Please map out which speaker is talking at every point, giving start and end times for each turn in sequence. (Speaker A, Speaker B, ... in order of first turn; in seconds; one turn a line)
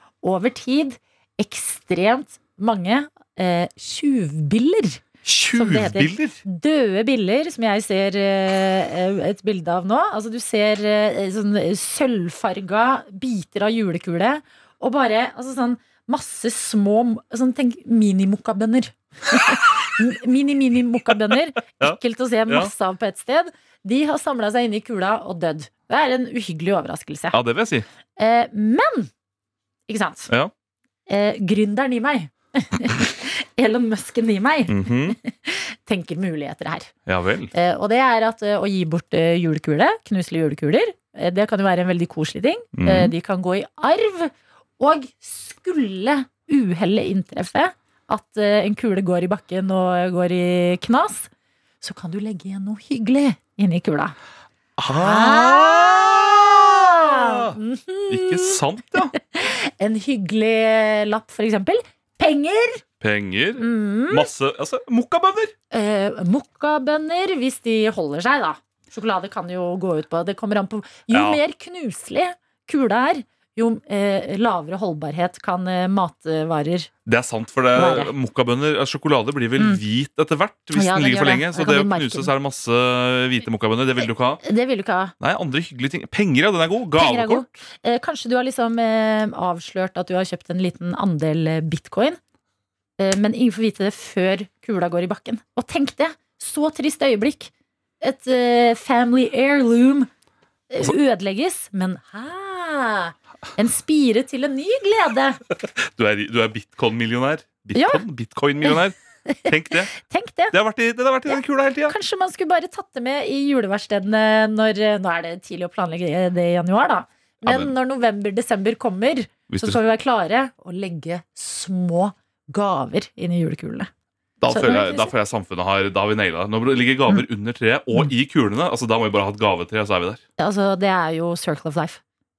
Speaker A: 0.2-27.4
Speaker B: 5.2-6.4
Speaker B: 21.8-22.7
Speaker B: 27.3-27.9
Speaker A: 28.2-29.1
Speaker A: 29.9-30.3
Speaker A: 31.1-36.9
Speaker B: 34.7-35.2
Speaker B: 37.1-37.5
Speaker A: 37.5-51.3
Speaker B: 42.8-43.1
Speaker A: 51.8-54.1
Speaker B: 54.8-57.6
Speaker A: 55.0-58.6
Speaker B: 58.1-59.1
Speaker A: 59.1-62.8
Speaker B: 63.0-65.5
Speaker A: 63.6-64.3
Speaker A: 65.7-76.9
Speaker B: 71.1-71.4
Speaker B: 77.1-84.4
Speaker A: 77.7-78.1
Speaker A: 80.7-82.3
Speaker A: 84.4-85.1
Speaker B: 85.2-87.5
Speaker A: 87.0-92.2
Speaker A: 93.0-97.5
Speaker A: 98.0-100.1
Speaker A: 100.7-105.4
Speaker B: 105.6-109.9
Speaker A: 107.7-108.0
Speaker A: 109.3-110.5
Speaker B: 110.5-112.0
Speaker A: 111.3-123.9
Speaker B: 117.4-117.7
Speaker B: 119.5-119.8
Speaker B: 124.4-130.2
Speaker A: 124.5-125.1
Speaker A: 130.4-132.0